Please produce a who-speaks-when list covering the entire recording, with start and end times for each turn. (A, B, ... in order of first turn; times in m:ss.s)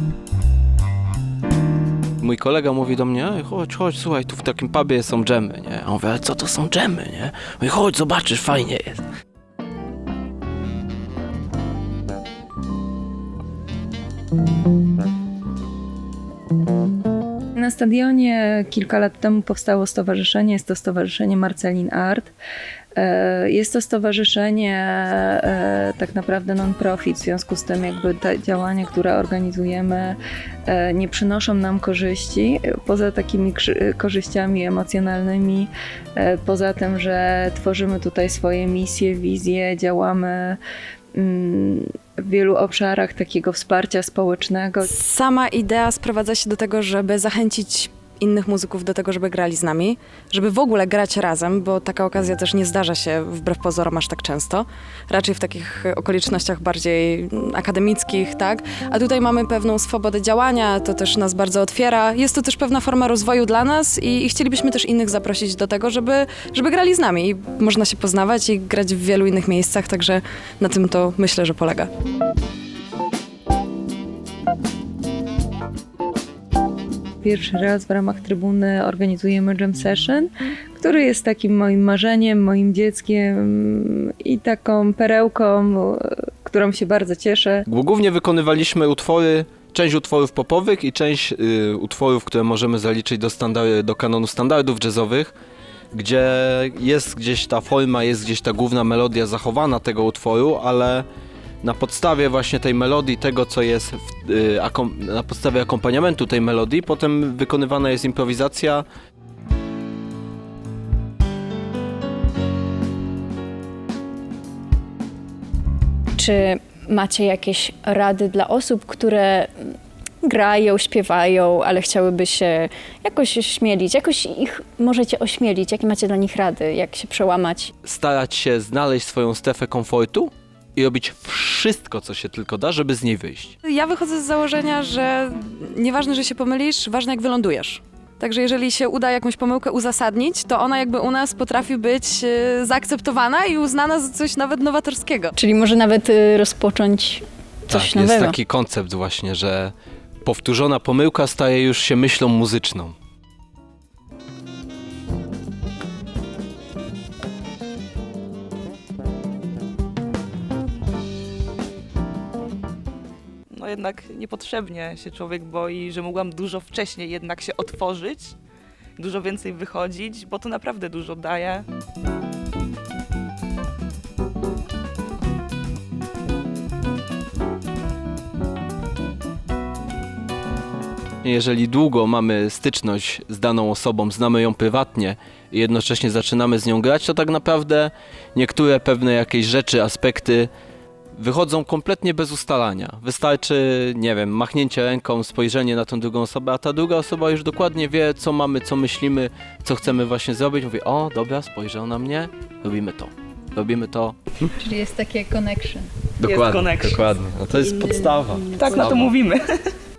0:02.2-0:09.0 A
0:17.5-0:22.3 B
0:23.0-0:40.6 B
0:41.1-0:44.8 B
0:44.9-1:11.9 C
1:17.2-1:27.6 B
1:27.7-1:35.3 A
1:35.9-1:41.0 A
1:41.6-1:48.8 A
1:56.2-2:07.7 D
2:07.8-2:13.5 A
2:13.6-2:25.3 C
2:25.4-2:28.4 D
2:27.7-2:32.9 A
2:43.5-2:48.4 E
2:49.0-2:51.6 E
3:01.2-3:10.5 A
3:11.2-3:24.2 A
3:24.6-3:25.9 D
3:26.2-3:29.1 A
3:26.2-3:27.1 E
3:28.4-3:29.6 E